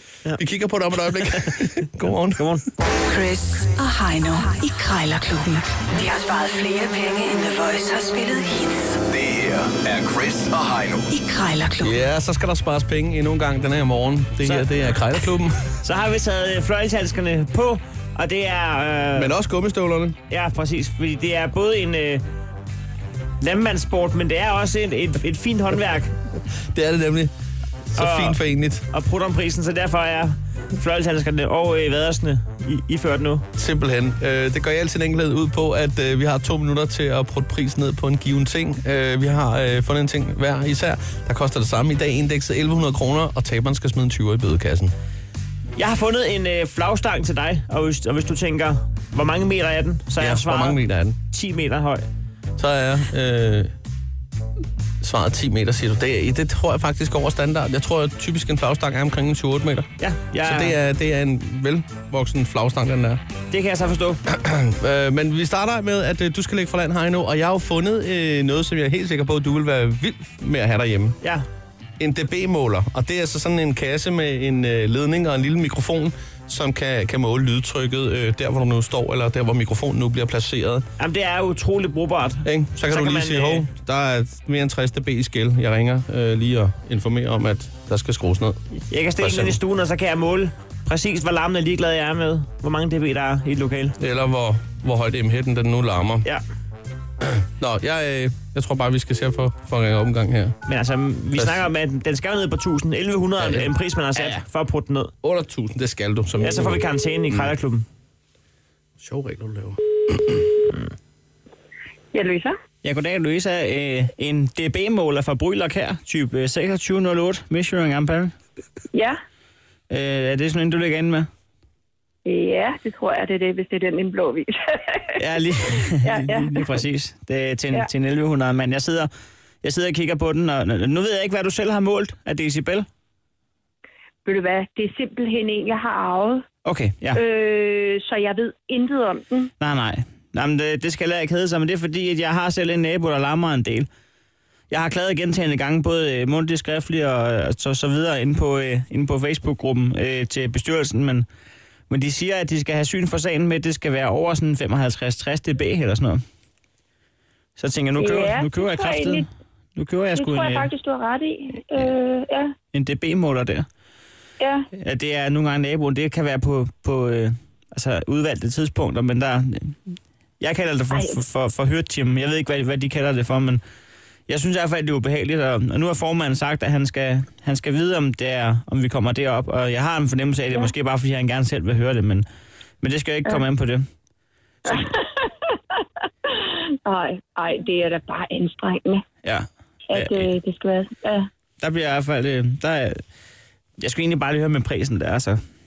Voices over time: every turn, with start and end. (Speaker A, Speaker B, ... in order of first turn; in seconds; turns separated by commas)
Speaker A: 0.4-2.4, Speaker B: 1.0-1.6, Speaker B: 2.4-2.6, Speaker C: 3.1-8.9, Speaker D: 9.1-11.1, Speaker C: 11.1-12.0, Speaker A: 11.8-15.6, Speaker B: 14.4-14.7, Speaker B: 15.8-19.3, Speaker A: 19.1-20.2, Speaker B: 20.3-22.2, Speaker B: 23.4-26.1, Speaker A: 26.7-27.3, Speaker A: 27.9-28.8, Speaker B: 27.9-33.5, Speaker A: 33.5-44.9, Speaker B: 45.8-52.0, Speaker A: 50.2-51.2, Speaker A: 52.6-53.7, Speaker A: 55.0-59.9, Speaker B: 60.0-60.8, Speaker A: 60.4-63.2, Speaker B: 63.5-64.2, Speaker A: 64.3-71.2, Speaker A: 72.0-80.8, Speaker B: 81.0-83.7, Speaker A: 82.4-88.6, Speaker B: 88.9-94.0, Speaker A: 89.2-89.6, Speaker A: 94.0-96.2, Speaker A: 97.2-100.5, Speaker B: 100.7-105.1, Speaker A: 101.3-101.6, Speaker A: 103.4-104.4, Speaker A: 105.2-107.5, Speaker B: 106.4-107.8, Speaker A: 109.0-110.4, Speaker E: 112.1-112.5, Speaker B: 112.8-118.3, Speaker E: 118.9-119.2, Speaker B: 119.9-121.3, Speaker E: 122.2-125.0, Speaker B: 125.2-129.1, Speaker E: 125.7-126.8, Speaker B: 129.6-132.8, Speaker E: 134.2-136.4, Speaker B: 136.6-137.2, Speaker E: 137.1-139.5, Speaker B: 139.6-143.9, Speaker B: 144.7-151.2, Speaker B: 151.9-156.2, Speaker B: 157.6-159.2, Speaker E: 157.9-159.3, Speaker B: 159.8-160.7, Speaker E: 160.1-162.5, Speaker B: 162.7-163.7, Speaker E: 164.4-164.7, Speaker B: 164.7-169.8, Speaker B: 170.4-173.6, Speaker E: 170.9-171.2, Speaker B: 174.3-182.2, Speaker B: 182.8-183.8, Speaker E: 184.7-185.3, Speaker E: 186.8-189.0, Speaker B: 189.2-190.3, Speaker E: 189.9-191.3, Speaker B: 191.6-193.0, Speaker B: 193.8-195.4